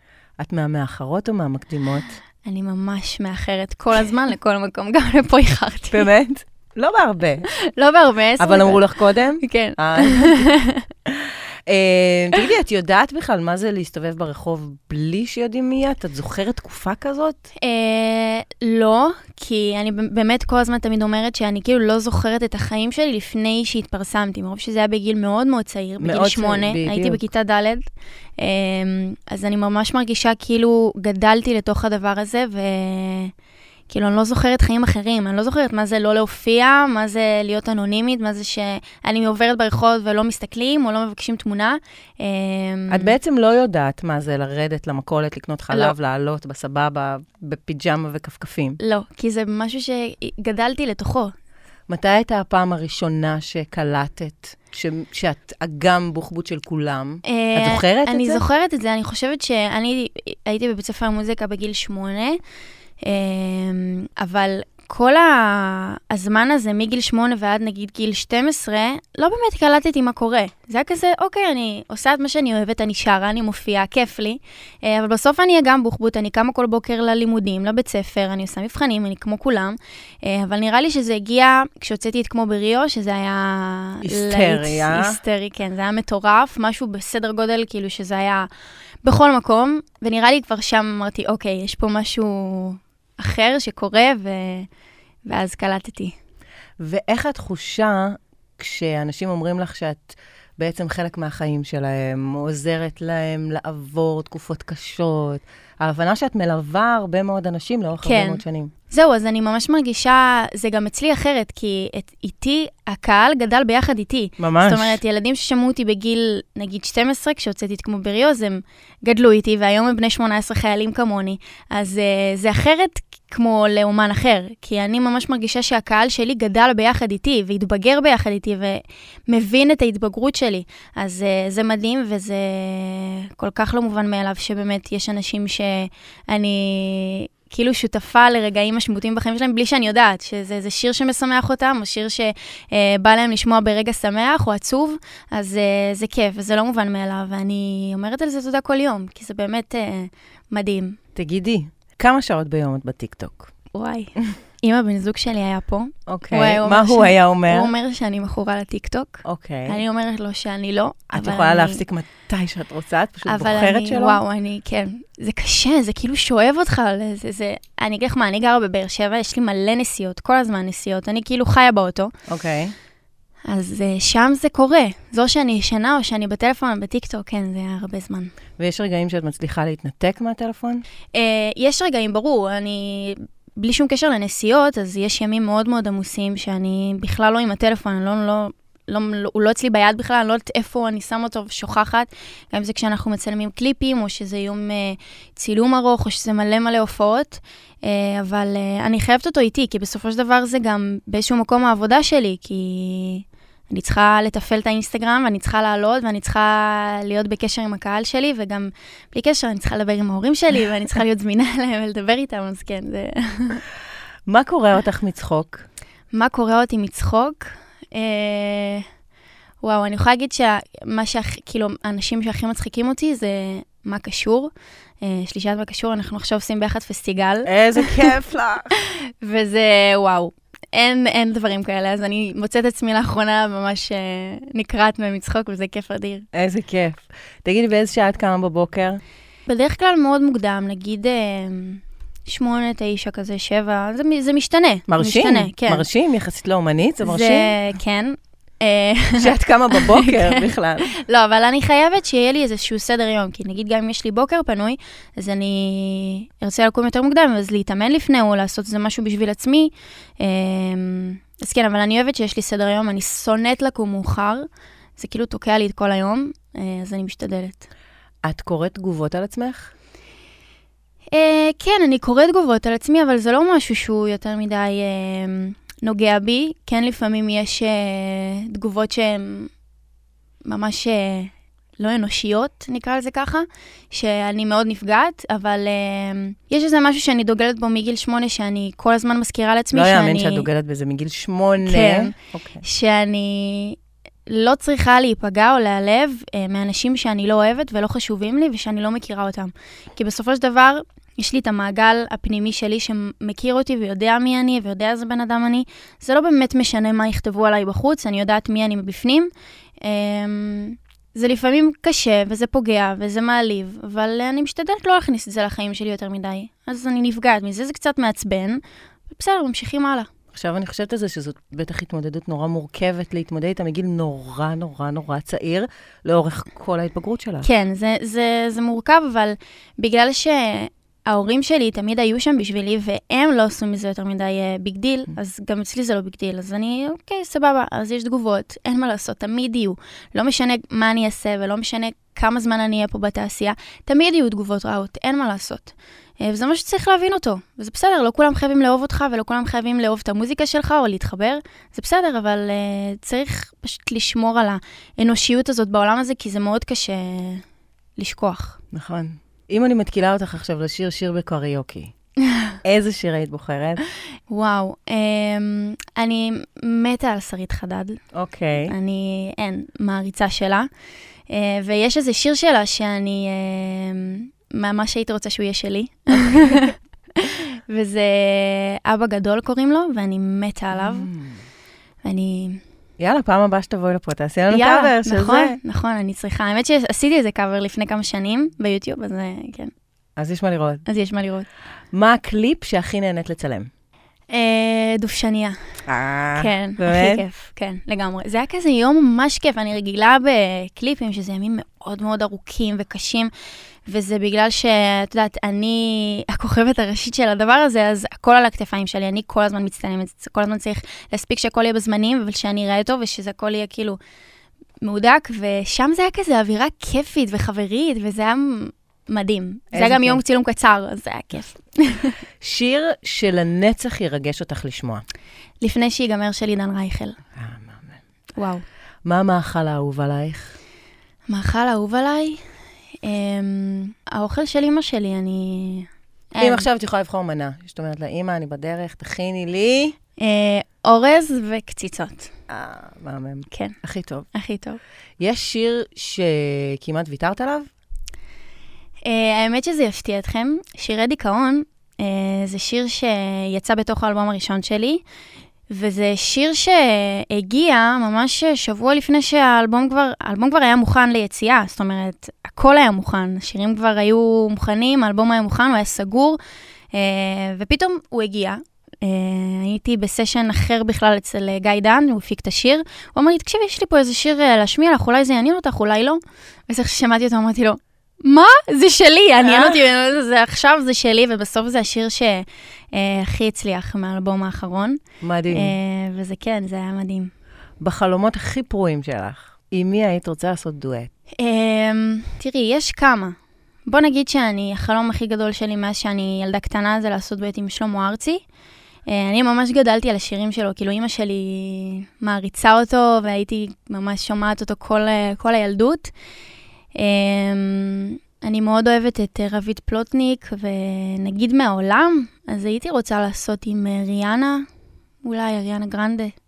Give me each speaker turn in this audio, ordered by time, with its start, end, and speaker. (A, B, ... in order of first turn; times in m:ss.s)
0:00.4-0:02.2 A
0:02.4-0:06.1 B
0:05.9-0:07.5 A
0:07.5-0:10.9 B
0:08.4-0:10.5 A
0:11.1-0:17.4 A
0:17.6-0:27.8 B
0:26.0-0:27.2 A
0:28.4-0:33.3 B
0:33.9-0:43.2 B
0:42.9-0:48.8 A
0:48.8-0:51.3 B
0:51.9-0:58.4 A
0:57.2-1:02.4 B
1:03.0-1:28.5 B
1:24.0-1:25.2 A
1:29.0-1:34.7 B
1:35.2-1:36.1 B
1:36.8-1:48.7 A
1:48.0-2:31.0 B
1:54.4-1:55.0 A
2:31.2-2:33.5 A
2:33.7-2:41.8 B
2:36.1-2:37.7 A
2:39.2-2:39.8 A
2:41.1-2:44.2 A
2:43.2-2:52.1 B
2:52.3-2:52.7 A
2:53.5-2:58.3 B
2:58.6-3:00.8 A
3:01.1-3:33.6 B
3:34.3-3:35.6 A
3:36.1-3:38.8 B
3:39.6-3:48.1 B
3:47.4-3:48.7 A
3:48.7-3:56.2 B
3:56.3-3:59.0 A
3:59.5-4:05.9 B
4:04.9-4:07.6 A
4:07.0-4:24.4 B
4:09.2-4:10.9 A
4:25.0-4:27.7 B
4:28.2-4:29.7 A
4:31.1-4:39.5 B
4:40.4-4:50.5 B
4:49.7-4:52.6 A
4:51.6-5:09.3 B
5:09.8-5:20.1 B
5:20.3-5:27.5 A
5:27.4-5:57.4 B
5:58.0-5:58.6 B
5:58.7-6:01.9 A
6:02.6-6:03.8 A
6:04.3-6:08.0 B
6:08.1-6:08.7 A
6:08.6-6:10.7 B
6:11.3-6:21.1 B
6:20.7-6:21.4 A
6:22.0-6:22.6 B
6:23.0-6:25.6 A
6:24.5-6:29.7 B
6:30.2-6:30.8 A
6:30.8-6:31.5 B
6:31.9-6:33.7 A
6:34.3-6:35.6 B
6:35.8-6:37.2 A
6:36.3-6:43.3 B
6:43.8-6:54.0 B
6:54.8-7:02.2 B
6:59.7-7:00.2 A
7:02.4-7:05.0 A
7:05.6-7:07.2 B
7:07.4-7:08.0 A
7:08.4-7:08.6 B
7:09.0-7:10.6 A
7:11.3-7:12.4 B
7:13.0-7:16.7 B
7:16.4-7:19.9 A
7:20.2-7:22.3 B
7:22.5-7:24.3 A
7:23.5-7:23.8 B
7:24.3-7:24.8 B
7:25.2-7:27.7 A
7:29.0-7:35.0 B
7:35.7-7:46.4 B
7:46.9-8:07.3 B
7:59.4-7:59.8 A
8:05.2-8:05.7 A
8:07.8-8:11.1 A
8:11.4-8:18.4 B
8:19.1-8:26.1 B
8:26.9-8:34.6 B
8:35.2-8:36.3 B